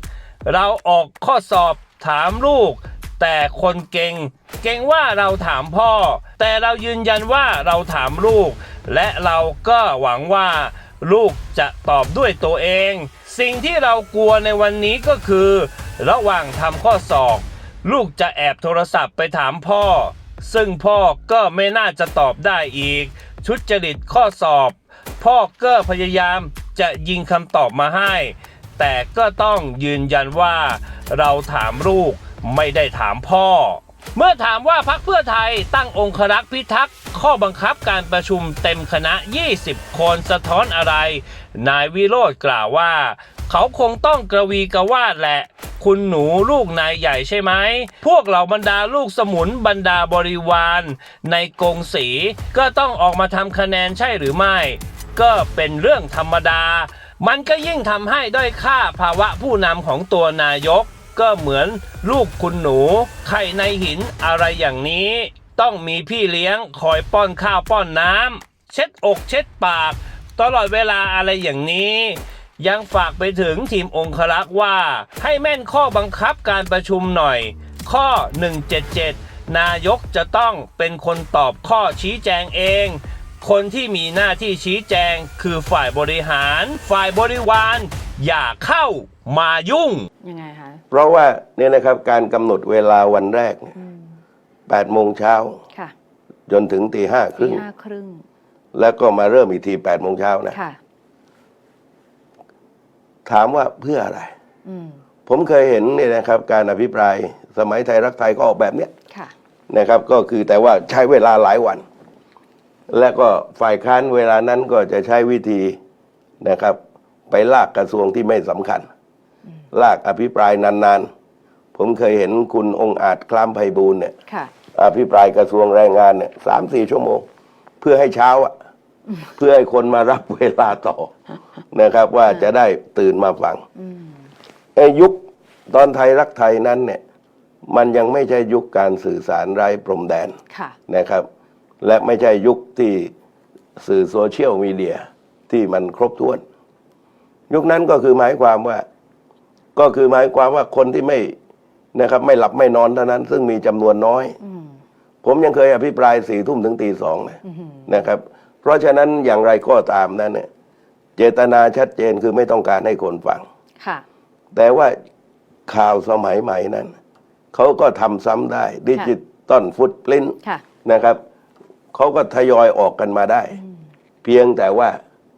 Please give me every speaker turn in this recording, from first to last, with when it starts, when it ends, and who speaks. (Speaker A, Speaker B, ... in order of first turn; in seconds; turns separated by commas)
Speaker A: 0.5-90.1, Speaker B: 90.2-90.8, Speaker C: 90.9-93.7, Speaker B: 93.8-94.0, Speaker C: 94.7-95.6, Speaker C: 96.5-97.6, Speaker B: 97.4-98.2, Speaker C: 98.7-100.6, Speaker B: 100.5-100.8, Speaker C: 103.2-104.3, Speaker B: 104.7-105.0, Speaker C: 105.3-108.9, Speaker C: 109.7-111.8, Speaker C: 112.9-115.8, Speaker C: 116.4-116.8, Speaker C: 117.3-118.9, Speaker C: 119.7-121.1, Speaker C: 121.8-124.2, Speaker C: 124.7-127.3, Speaker C: 127.8-128.5, Speaker C: 129.4-131.1, Speaker C: 131.7-133.6, Speaker B: 133.8-134.2, Speaker C: 134.8-137.0, Speaker C: 137.7-140.4, Speaker B: 140.5-140.8, Speaker C: 140.9-141.3, Speaker C: 141.8-143.1, Speaker C: 143.8-146.4, Speaker C: 147.5-148.9, Speaker C: 149.8-151.3, Speaker C: 151.9-154.4, Speaker B: 154.4-154.8, Speaker C: 155.2-160.5, Speaker B: 157.5-157.8, Speaker C: 161.2-163.5, Speaker C: 164.5-165.0, Speaker C: 165.7-166.9, Speaker C: 167.5-171.2, Speaker C: 171.9-173.6, Speaker C: 174.2-175.0